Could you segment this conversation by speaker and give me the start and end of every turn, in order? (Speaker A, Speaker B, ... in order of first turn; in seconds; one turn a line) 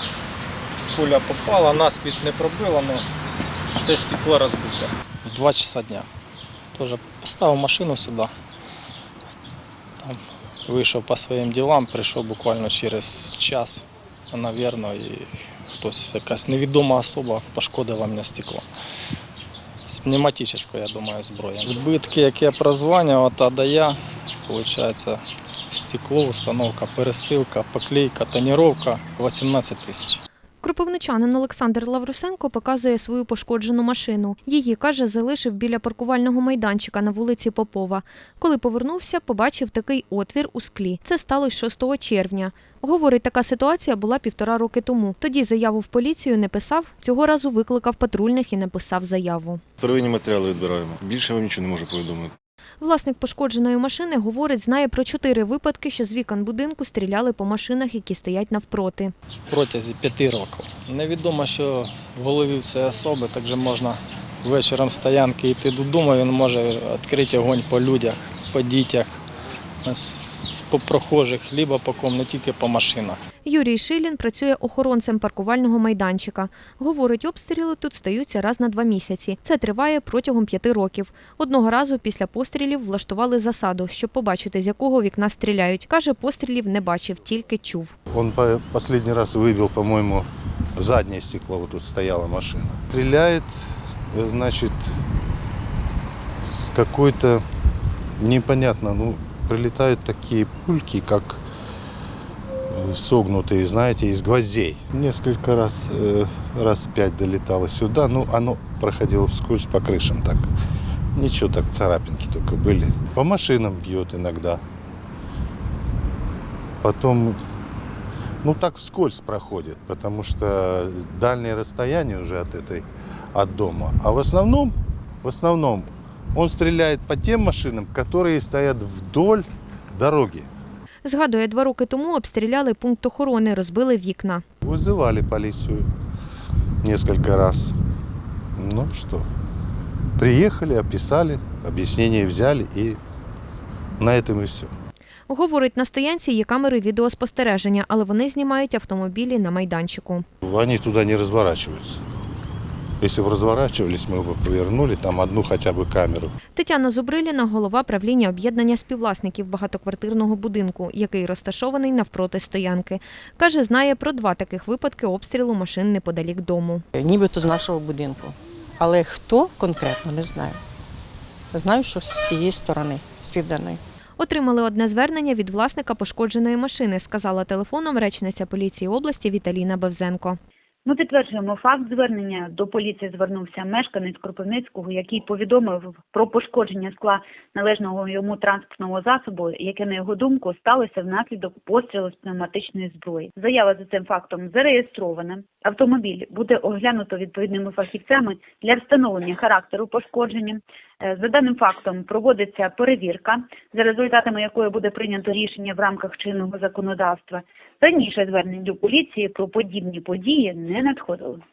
Speaker A: 0.9-6.1
Speaker A: 6.8-8.3
Speaker A: 10.0-18.6
Speaker A: 19.9-30.2
Speaker B: 30.6-49.6
Speaker C: 49.8-52.3
Speaker B: 52.8-59.1
Speaker A: 59.5-69.2
Speaker A: 69.8-73.2
Speaker B: 73.5-88.0
Speaker D: 88.1-95.0
Speaker D: 96.4-97.4
Speaker D: 98.2-101.4
Speaker D: 102.7-110.5
Speaker D: 111.2-114.6
Speaker D: 116.8-117.4
Speaker D: 118.4-130.5
Speaker B: 131.1-134.4
Speaker D: 134.6-135.9
Speaker D: 136.8-137.8
Speaker D: 138.6-139.3
Speaker D: 140.2-143.0
Speaker D: 144.0-144.7
Speaker B: 145.3-150.3
Speaker D: 150.4-152.0
Speaker D: 153.0-156.3
Speaker B: 156.6-166.8
Speaker E: 166.9-170.6
Speaker E: 171.5-173.8
Speaker B: 174.2-180.4
Speaker F: 180.9-211.4